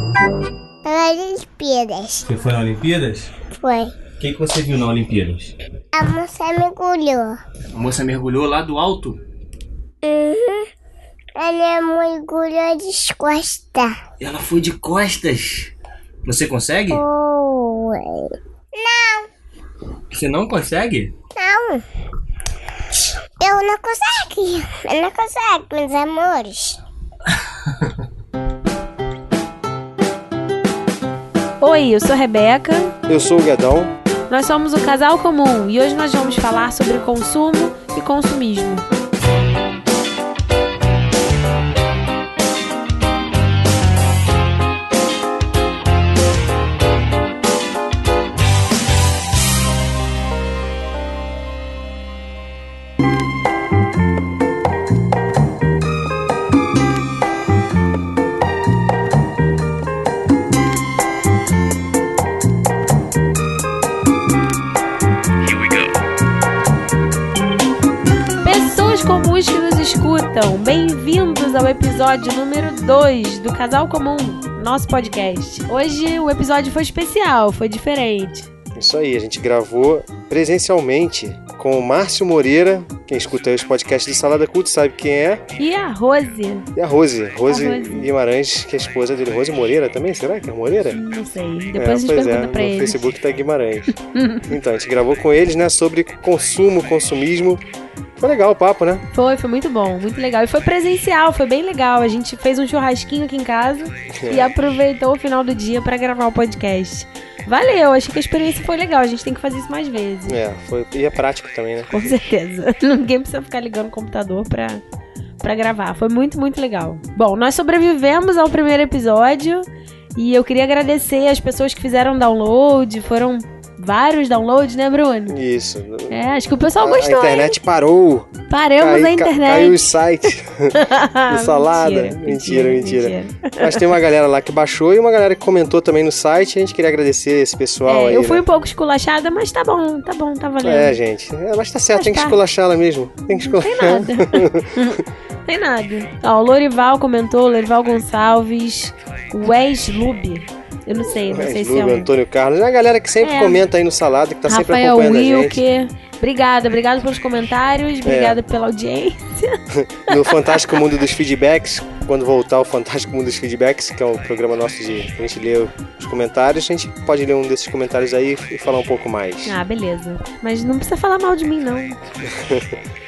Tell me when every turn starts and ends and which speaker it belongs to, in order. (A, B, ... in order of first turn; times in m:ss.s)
0:00.8-0:02.2 A
0:02.3-0:03.3 B
0:03.5-0:03.9 A
0:04.2-0:05.5 B
0:05.9-0:07.4 A
0:07.7-0:09.2 B
0:10.0-0:10.7 A
0:11.4-0:14.0 A
0:14.2-0:15.7 B
0:16.2-0:17.0 B
0:16.9-0:19.3 A
0:20.1-0:21.1 B
0:21.4-0:21.8 A
0:23.4-0:26.8 A
0:31.6-0:33.0 C
0:33.1-0:33.9 D
0:34.3-0:38.8 C
1:05.5-1:05.8 B
1:08.4-1:18.5 C
1:18.8-1:25.4 D
1:25.6-1:26.7 C
1:26.8-1:31.0 D
1:27.5-1:28.1 C
1:30.9-1:33.0 C
1:31.7-1:33.9 D
1:34.1-1:34.5 C
1:34.5-1:37.6 D
1:38.2-1:39.0 D
1:39.1-1:50.4 C
1:44.2-1:44.5 D
1:50.3-1:51.9 D
1:51.8-1:54.8 C
1:55.4-2:05.4 C
2:05.3-2:06.1 D
2:06.1-2:07.6 C
2:06.8-2:10.8 D
2:08.5-2:13.8 C
2:11.3-2:18.4 D
2:17.8-2:20.9 C
2:20.6-2:24.7 D
2:22.0-2:22.4 C
2:23.4-2:32.1 C
2:31.2-2:35.6 D
2:33.2-2:33.6 C
2:34.4-2:39.6 C
2:38.0-2:38.4 D
2:39.7-2:49.6 D
2:49.4-2:52.0 C
2:52.3-2:52.8 D